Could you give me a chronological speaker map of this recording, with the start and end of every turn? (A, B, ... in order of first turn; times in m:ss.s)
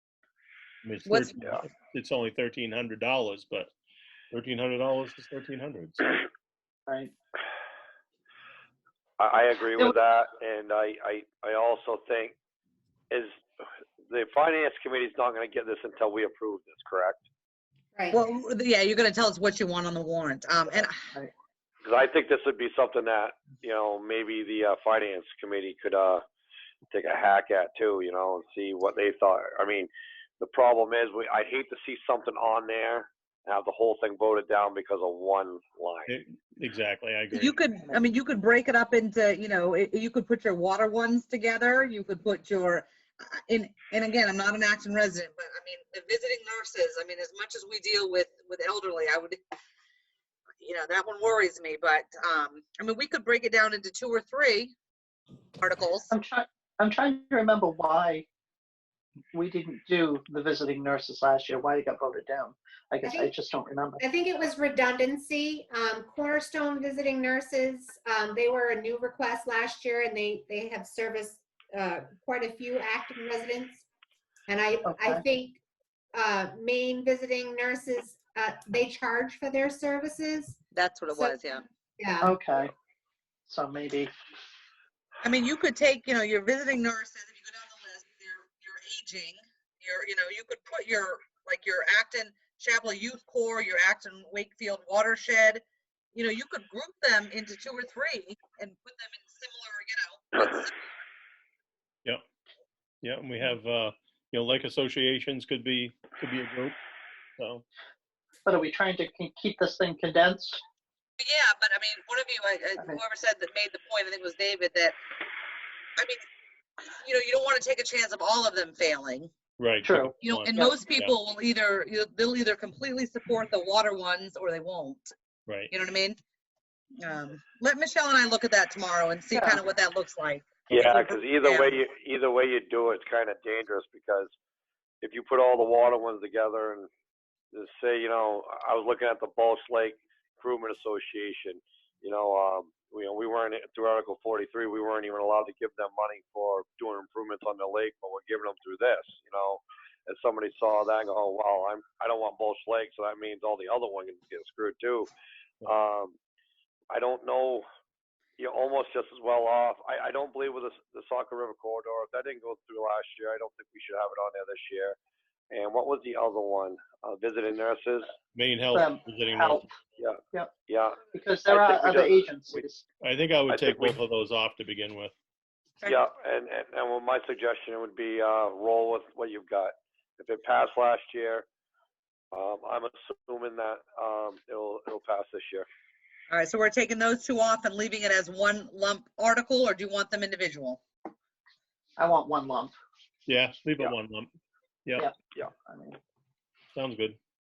0:00.8-0:03.7 A
0:01.1-0:01.4 B
0:04.3-0:06.1 A
0:06.9-0:07.1 C
0:09.2-0:12.4 D
0:13.1-0:13.4 D
0:14.1-0:17.2 D
0:18.0-0:18.2 E
0:18.1-0:20.9 B
0:21.8-0:26.2 D
0:26.9-0:36.1 D
0:36.1-0:37.6 A
0:37.3-0:49.4 B
0:50.6-0:54.7 B
0:55.6-0:56.1 B
0:56.1-0:58.3 C
0:59.3-1:04.0 C
1:03.1-1:03.3 E
1:04.0-1:13.8 E
1:14.5-1:15.6 E
1:14.8-1:15.2 C
1:16.2-1:21.4 E
1:20.7-1:21.6 B
1:22.0-1:22.3 E
1:22.2-1:22.7 C
1:23.5-1:24.1 C
1:25.2-1:35.6 B
1:36.2-1:40.7 B
1:43.0-1:46.8 A
1:47.4-1:47.6 A
1:48.5-1:50.6 C
1:51.2-1:55.0 B
1:57.0-1:59.3 B
1:59.6-2:01.1 A
1:59.8-2:00.1 C
2:00.2-2:05.1 B
2:05.5-2:05.7 A
2:05.7-2:06.2 B
2:07.0-2:11.7 B
2:09.3-2:09.6 C
2:10.7-2:14.3 D
2:15.0-2:16.9 D
2:17.5-2:35.1 D
2:35.6-2:36.2 D
2:36.9-2:37.7 D
2:38.4-2:45.0 D
2:45.5-2:48.1 D
2:48.4-2:49.7 A
2:48.7-2:49.7 C
2:50.0-2:52.6 D
2:51.1-2:52.8 C
2:53.0-2:55.1 A
2:53.5-2:54.0 D
2:55.8-3:01.5 D
3:02.3-3:05.7 D
3:06.3-3:10.8 B
3:12.0-3:12.7 C
3:13.3-3:14.3 A
3:15.0-3:16.0 C
3:16.7-3:17.2 A